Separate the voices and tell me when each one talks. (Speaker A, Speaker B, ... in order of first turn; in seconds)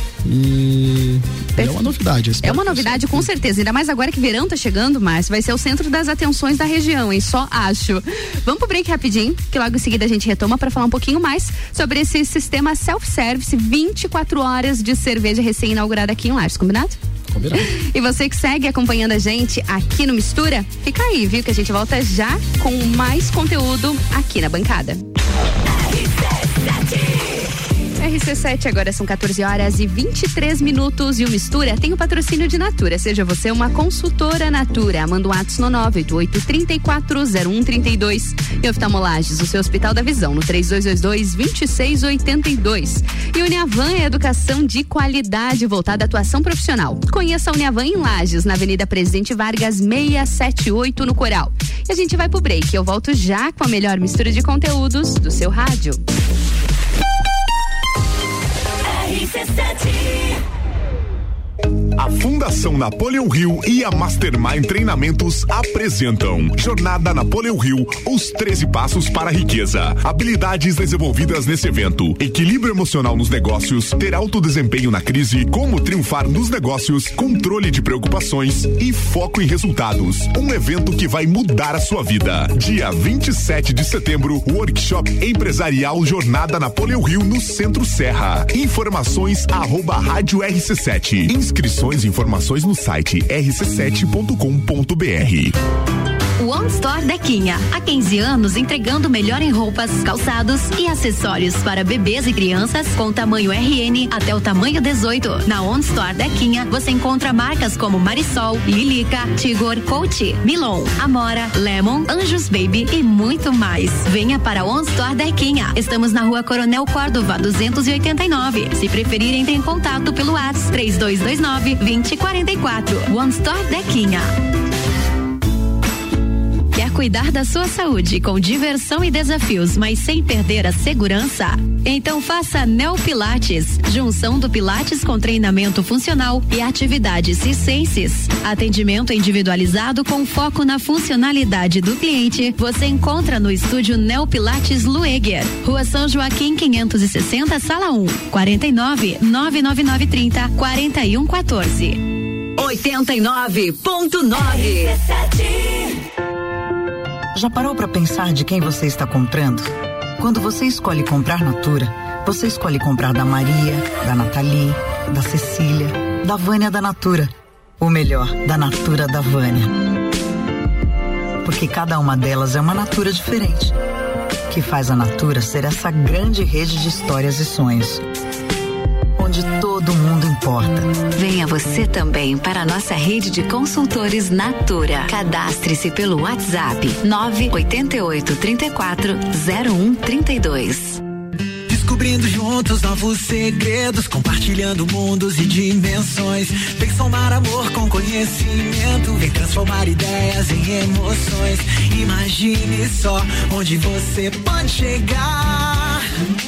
Speaker A: 0.2-3.3, 17.3-17.7
Speaker B: 1.6-1.9, 2.4-17.0, 17.6-25.0, 28.0-56.0
Speaker C: 62.0-95.5
Speaker D: 96.4-124.3, 126.7-152.0, 152.6-154.9
Speaker E: 157.3-169.7, 171.4-173.7, 174.5-178.0, 179.2-180.9
Speaker F: 181.1-191.0
Speaker G: 191.7-206.0